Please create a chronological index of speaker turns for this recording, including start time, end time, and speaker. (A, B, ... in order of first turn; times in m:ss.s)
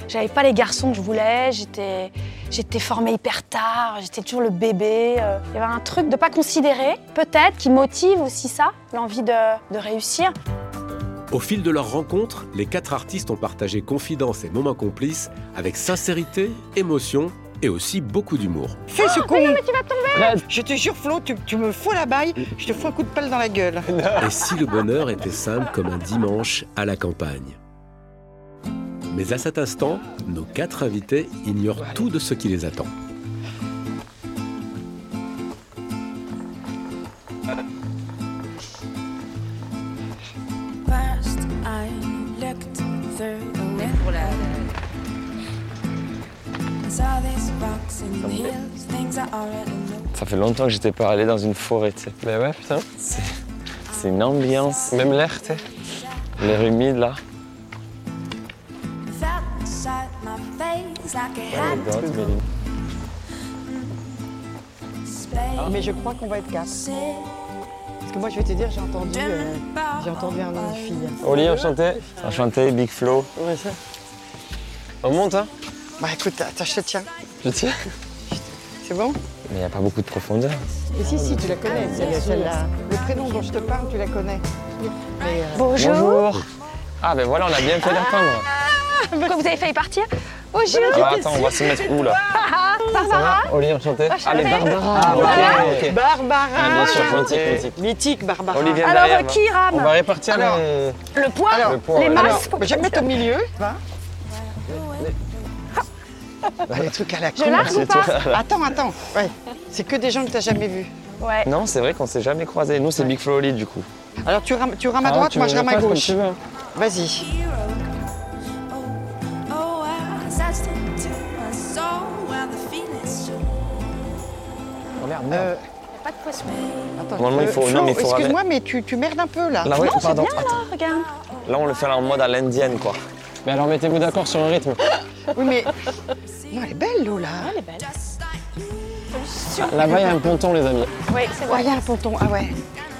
0:00.1-0:10.3 A
0:11.3-0:18.8 B
0:18.9-0:19.6 C
0:19.0-0:20.4 A
0:20.3-0:23.9 C
0:23.9-0:24.3 D
0:24.1-0:27.6 B
0:29.1-0:32.9 B
0:40.9-0:44.3 E
0:46.8-0:50.1 E
0:50.1-0:52.1 F
0:52.2-0:52.9 D
0:53.0-0:53.3 F
0:53.9-0:55.1 F
0:54.9-0:55.8 D
0:56.4-0:57.2 F
0:59.1-1:01.6 E
1:01.5-1:02.4 D
1:01.6-1:02.3 F
1:05.2-1:05.6 E
1:05.6-1:06.7 C
1:08.0-1:12.4 C
1:09.5-1:10.0 E
1:11.2-1:12.1 D
1:12.2-1:13.3 F
1:13.4-1:13.8 C
1:15.0-1:15.5 D
1:16.0-1:17.1 C
1:17.4-1:17.9 D
1:18.3-1:19.2 C
1:19.5-1:20.6 F
1:21.0-1:26.2 C
1:21.0-1:22.5 D
1:25.5-1:26.3 A
1:25.7-1:26.4 F
1:27.0-1:28.5 F
1:28.6-1:29.4 C
1:29.2-1:30.1 A
1:30.5-1:31.8 C
1:30.7-1:31.6 A
1:30.9-1:32.2 F
1:32.3-1:33.5 A
1:33.0-1:36.0 D
1:34.1-1:35.6 A
1:34.9-1:38.9 C
1:34.9-1:35.9 F
1:36.5-1:37.8 D
1:36.7-1:37.6 F
1:38.5-1:41.0 D
1:38.8-1:39.9 A
1:40.3-1:40.6 C
1:41.1-1:43.1 A
1:41.5-1:43.8 C
1:41.6-1:42.5 D
1:46.7-1:50.9 C
1:47.3-1:48.3 A
1:47.5-1:48.4 F
1:51.2-1:51.5 A
1:51.4-1:53.9 F
1:54.2-1:56.2 C
1:55.0-1:56.4 D
1:56.7-1:57.3 C
2:00.0-2:00.3 A
2:00.4-2:03.3 E
2:05.0-2:05.5 F
2:05.3-2:05.6 C
2:05.9-2:06.8 A
2:07.0-2:10.0 C
2:07.2-2:08.4 F
2:09.6-2:10.6 F
2:09.8-2:11.1 A
2:11.4-2:13.0 F
2:13.4-2:14.9 D
2:15.3-2:15.7 C
2:16.5-2:17.5 C
2:17.4-2:17.9 A
2:19.1-2:20.0 A
2:19.6-2:20.9 D
2:21.1-2:21.7 A
2:21.5-2:22.6 C